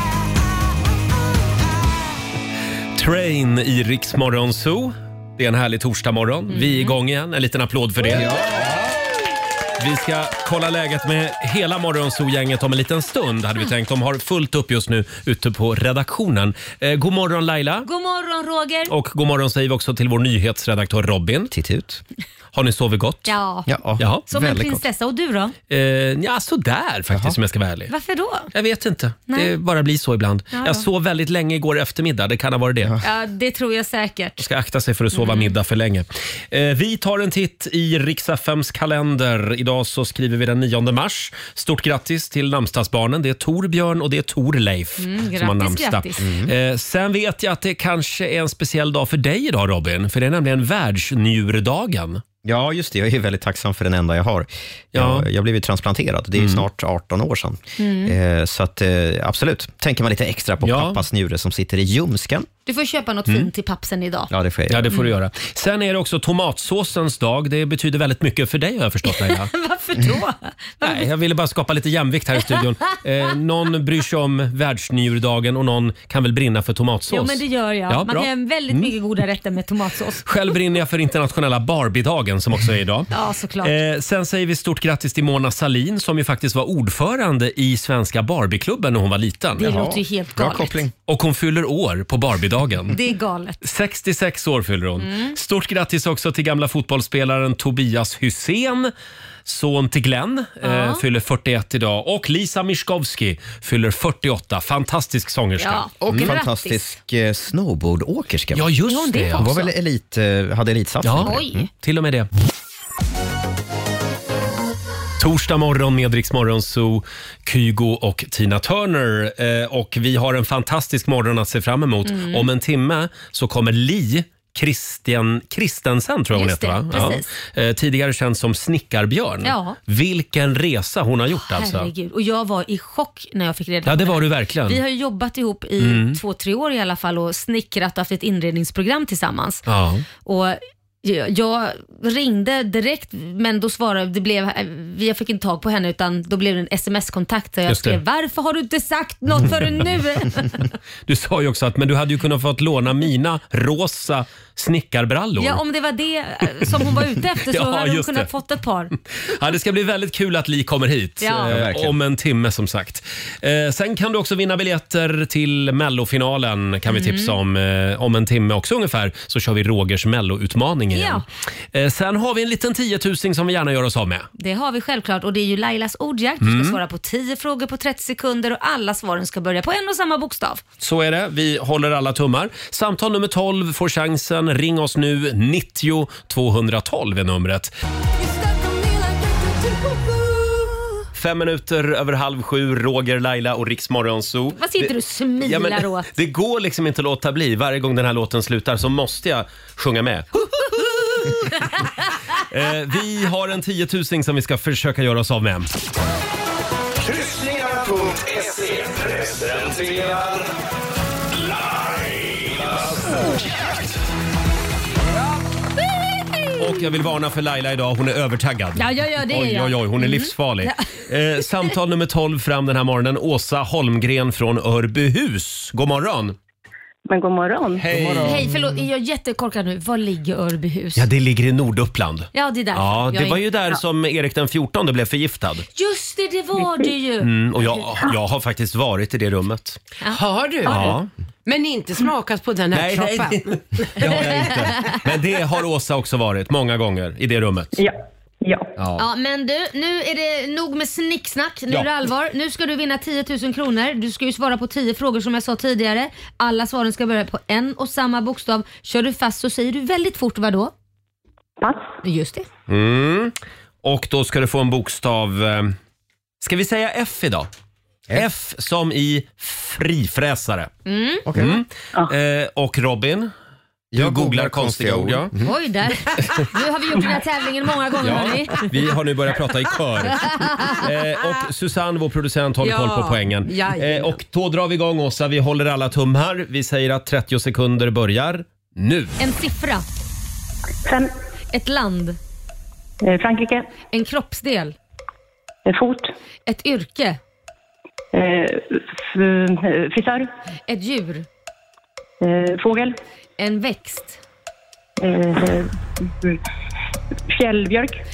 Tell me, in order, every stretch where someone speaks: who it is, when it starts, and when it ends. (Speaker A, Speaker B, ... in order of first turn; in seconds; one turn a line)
Speaker A: 3.0-8.6
Speaker B: 6.5-6.9
Speaker C: 8.1-8.8
Speaker A: 9.8-17.9
Speaker B: 17.8-18.9
Speaker A: 18.9-21.5
Speaker C: 21.5-22.0
Speaker A: 22.5-23.3
Speaker B: 23.3-23.7
Speaker C: 23.7-24.9
Speaker A: 24.0-24.2
Speaker B: 24.3-25.6
Speaker A: 25.7-27.9
Speaker C: 27.1-27.4
Speaker B: 27.9-28.5
Speaker A: 28.5-32.9
Speaker B: 30.5-30.9
Speaker B: 33.0-34.5
Speaker A: 34.4-52.2
Speaker B: 35.1-35.5
Speaker B: 45.0-46.2
Speaker C: 46.2-46.5
Speaker C: 52.4-62.5
Speaker A: 54.9-55.3
Speaker A: 56.4-56.6
Speaker B: 57.8-58.1
Speaker A: 60.6-61.0
Speaker B: 62.7-64.3
Speaker C: 64.3-65.0
Speaker A: 64.7-69.5
Speaker B: 69.0-71.1
Speaker A: 70.8-78.9
Speaker B: 77.1-80.2
Speaker A: 80.2-83.1
Speaker B: 83.1-83.8
Speaker A: 83.6-89.7
Speaker B: 89.6-90.8
Speaker C: 89.6-90.9
Speaker A: 91.1-93.0
Speaker B: 92.9-93.6
Speaker A: 93.6-98.9
Speaker B: 95.0-95.4
Speaker A: 99.5-106.3
Speaker B: 100.6-101.0
Speaker B: 105.6-106.9
Speaker C: 106.0-108.7
Speaker A: 108.5-109.6
Speaker B: 108.9-109.7
Speaker C: 109.3-111.7
Speaker A: 111.0-112.3
Speaker B: 111.2-111.6
Speaker A: 115.2-131.9
Speaker B: 122.1-122.5
Speaker B: 126.3-127.3
Speaker B: 129.4-129.8
Speaker B: 131.4-139.6
Speaker A: 133.8-134.8
Speaker A: 135.8-136.2
Speaker A: 139.7-140.1
Speaker B: 140.2-150.7
Speaker A: 147.7-148.0
Speaker A: 151.1-155.6
Speaker B: 155.4-158.9
Speaker A: 157.5-158.3
Speaker A: 159.3-174.3
Speaker B: 161.2-161.5
Speaker C: 161.4-162.0
Speaker B: 166.9-167.4
Speaker B: 170.9-171.2
Speaker B: 174.4-180.6
Speaker A: 176.4-176.8
Speaker A: 180.8-187.7
Speaker A: 191.1-201.6
Speaker B: 194.5-196.1
Speaker A: 202.4-205.7
Speaker D: 207.0-210.5
Speaker D: 211.3-213.4
Speaker B: 216.2-216.8
Speaker A: 216.6-226.4
Speaker B: 218.8-220.9
Speaker E: 227.1-227.9
Speaker A: 227.8-228.4
Speaker C: 227.8-228.5
Speaker B: 228.2-231.1
Speaker A: 231.0-235.7
Speaker B: 232.3-233.4
Speaker B: 235.8-237.3
Speaker A: 237.2-239.8
Speaker B: 240.0-240.9
Speaker F: 240.1-240.9
Speaker A: 240.7-241.1
Speaker F: 241.4-244.6
Speaker A: 242.7-247.8
Speaker E: 247.8-248.7
Speaker A: 248.8-249.0
Speaker B: 249.0-260.7
Speaker E: 261.6-261.9
Speaker B: 262.0-262.5
Speaker A: 262.7-265.8
Speaker A: 266.4-267.5
Speaker A: 268.1-270.7
Speaker B: 270.9-271.2
Speaker C: 271.3-271.6
Speaker A: 271.4-273.3
Speaker C: 273.9-275.5
Speaker A: 273.9-275.3
Speaker B: 275.4-278.7
Speaker A: 278.0-289.2
Speaker B: 280.2-280.7
Speaker F: 282.6-284.2
Speaker B: 289.2-289.9
Speaker E: 290.9-291.1
Speaker B: 291.5-292.2
Speaker E: 293.0-293.7
Speaker B: 293.9-294.8
Speaker E: 295.7-296.1
Speaker B: 296.5-297.2
Speaker E: 298.1-300.3
Speaker B: 300.7-301.3
Speaker E: 302.2-303.0
Speaker B: 303.4-304.2
Speaker E: 305.0-306.4
Speaker E: 307.3-308.0